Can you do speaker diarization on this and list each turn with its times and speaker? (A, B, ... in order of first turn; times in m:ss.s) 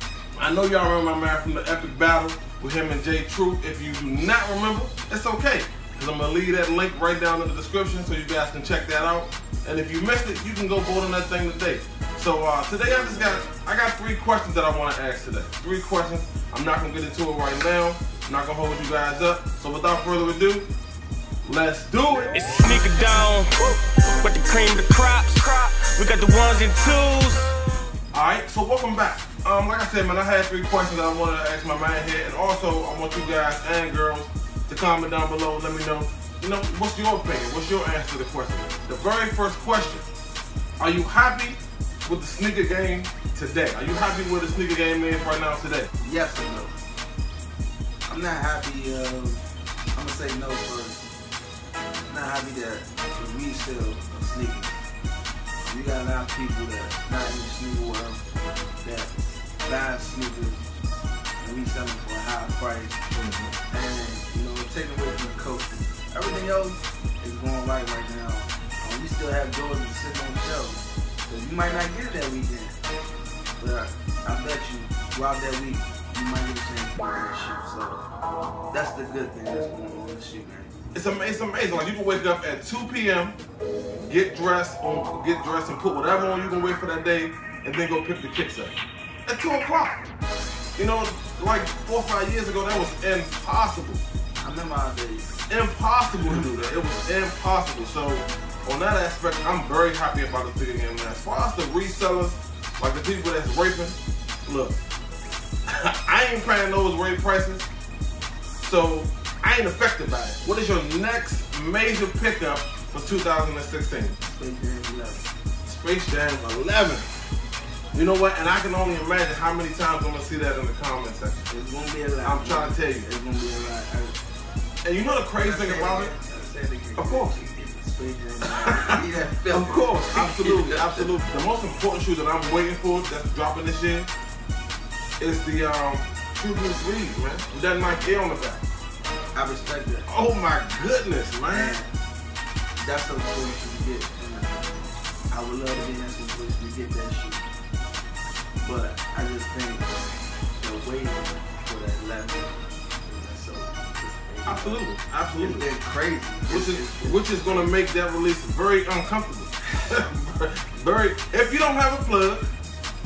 0:00.4-0:20.7 A
0:12.8-0:13.4 B
0:21.4-0:22.4 A
0:22.3-0:27.5 C
0:28.1-0:40.1 A
0:40.8-0:45.9 A
0:46.0-0:46.8 B
0:48.1-0:49.4 B
0:49.9-0:51.1 B
0:52.1-0:54.8 B
0:55.6-0:58.2 B
0:58.8-0:59.1 B
0:59.6-1:00.6 B
1:01.4-1:03.0 B
1:03.1-1:03.5 A
1:03.7-1:12.8 B
1:13.6-1:18.1 B
1:18.7-1:20.8 B
1:20.9-1:23.4 A
1:24.1-1:28.8 A
1:29.3-1:30.0 A
1:30.8-1:34.0 A
1:34.4-1:35.3 B
1:35.5-1:44.8 A
1:45.7-1:47.7 A
1:48.6-1:54.2 A
1:54.2-1:55.3 B
1:55.6-1:57.1 A
1:57.9-2:01.5 A
2:01.5-2:04.2 B
2:02.2-2:03.1 A
2:04.8-2:06.1 A
2:05.4-2:11.1 B
2:07.0-2:07.3 A
2:08.7-2:09.0 A
2:09.5-2:14.1 A
2:15.2-2:18.7 A
2:19.3-2:20.1 B
2:20.1-2:21.8 A
2:21.5-2:21.9 B
2:22.8-2:24.7 B
2:25.3-2:27.5 B
2:28.6-2:29.9 B
2:30.6-2:34.8 B
2:34.5-2:35.7 A
2:35.4-2:37.8 B
2:36.5-2:42.4 A